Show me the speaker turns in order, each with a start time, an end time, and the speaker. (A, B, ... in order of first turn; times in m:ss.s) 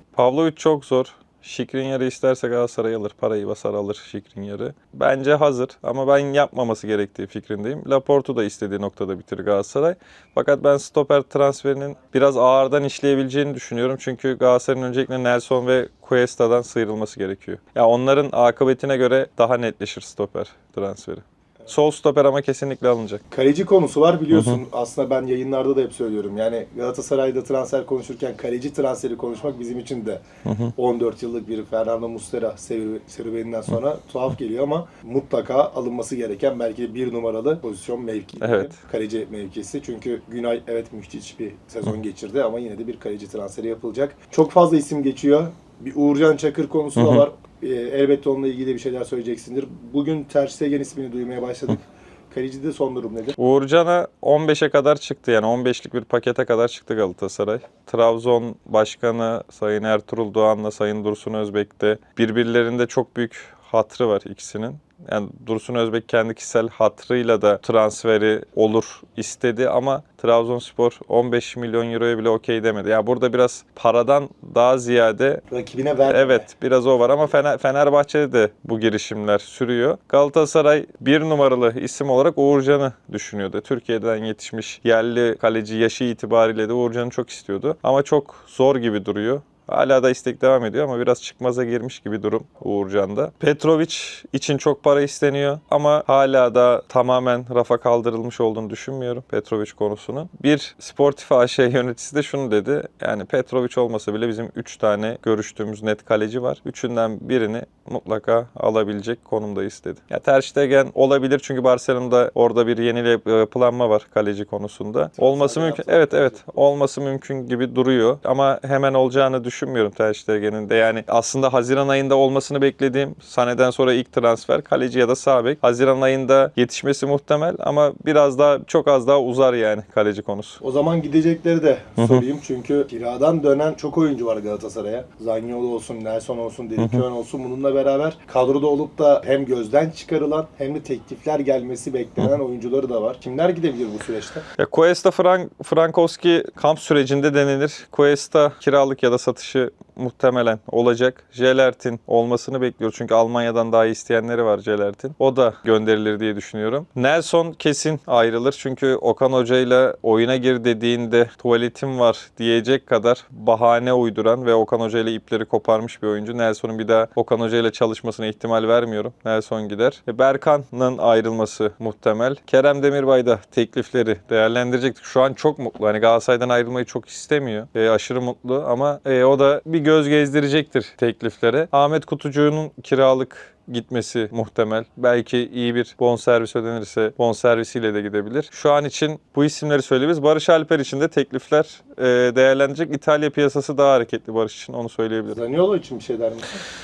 0:00.2-0:23.2 A
0:23.3-0:30.2 B
0:24.3-0:24.6 A
0:30.4-0:30.7 A
0:30.8-0:53.4 B
0:38.4-0:38.8 A
0:47.0-0:47.2 A
0:53.4-1:15.4 A
1:15.5-1:16.5 B
1:16.1-2:10.6 A
1:55.2-1:56.5 B
2:10.6-2:24.4 B
2:12.0-2:12.2 A
2:16.8-2:17.0 A
2:24.6-3:15.4 A
3:15.3-3:16.6 B